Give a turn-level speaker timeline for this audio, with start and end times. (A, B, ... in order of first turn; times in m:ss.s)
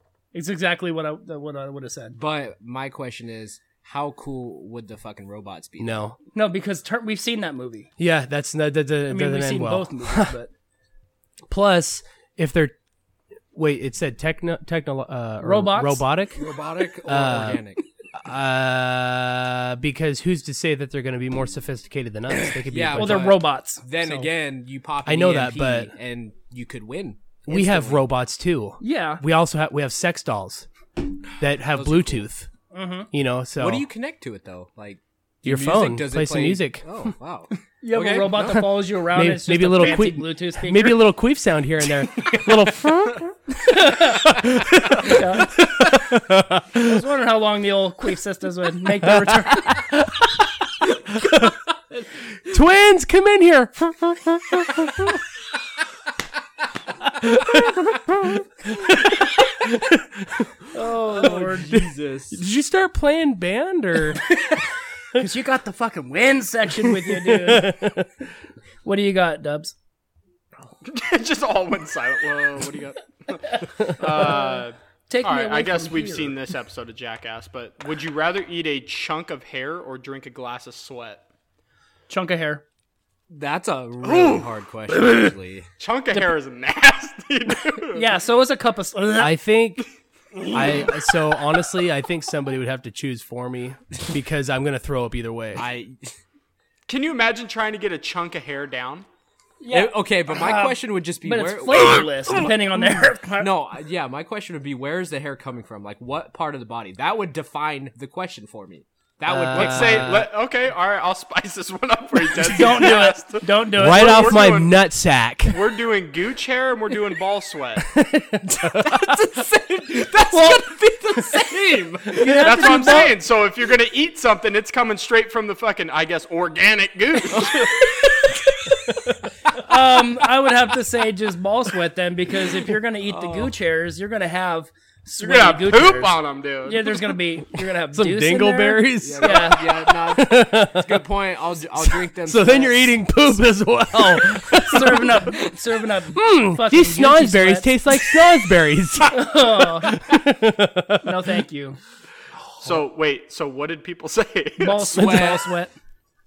0:00.3-0:02.2 A
0:02.2-0:05.9 B
0:05.8-0:06.2 C
0:06.3-0:07.9 A
0:08.0-0:10.3 C
0:09.1-0:10.5 A
0:11.5-0:12.7 C
0:13.5-0:16.4 C
0:15.4-0:16.0 A
0:16.4-0:17.8 B
0:17.0-0:17.6 C
0:18.1-0:23.3 C
0:22.7-0:28.0 B
0:22.9-0:23.8 A
0:25.0-0:25.9 C
0:27.5-0:30.7 C
0:28.8-0:29.2 A
0:31.4-0:32.5 C
0:31.6-0:32.3 B
0:32.7-0:33.1 A
0:33.1-0:33.8 C
0:33.6-0:38.7 B
0:35.4-0:37.1 C
0:37.8-0:41.0 A
0:38.5-0:47.0 C
0:43.6-0:44.4 A
0:45.0-0:45.6 A
0:46.8-0:49.8 A
0:49.0-0:50.4 C
0:51.1-0:51.5 C
0:52.5-0:55.2 C
0:57.0-1:00.5 C
1:00.7-1:01.8 A
1:01.1-1:02.4 B
1:01.7-1:04.3 C
1:04.3-1:04.6 A
1:05.1-1:07.9 A
1:06.9-1:08.1 C
1:08.8-1:09.7 A
1:10.8-1:21.2 D
1:13.9-1:16.3 A
1:22.1-1:22.6 A
1:23.3-1:25.7 B
1:24.0-1:24.5 D
1:25.8-1:28.1 D
1:27.9-1:29.4 A
1:29.2-1:29.8 C
1:30.5-1:35.6 C
1:35.6-1:36.1 B
1:36.9-1:39.0 D
1:39.6-1:43.5 A
1:39.7-1:42.5 B
1:43.4-1:50.2 B
1:49.2-1:50.3 C
1:49.5-1:54.7 D
1:52.4-1:54.5 A
1:53.8-1:55.6 C
1:55.5-1:57.8 D
1:57.8-1:59.2 C
1:58.7-2:02.8 B
2:02.2-2:03.1 A
2:02.3-2:07.9 D
2:07.3-2:08.9 B
2:09.5-2:19.6 A
2:13.1-2:13.5 B
2:15.2-2:17.1 D
2:17.9-2:21.0 C
2:19.0-2:23.0 B
2:21.8-2:25.2 C
2:24.6-2:27.7 A
2:26.1-2:31.2 C
2:29.1-2:29.9 A
2:31.0-2:31.8 A
2:32.6-2:35.2 D
2:34.6-2:35.7 A
2:34.8-2:35.5 B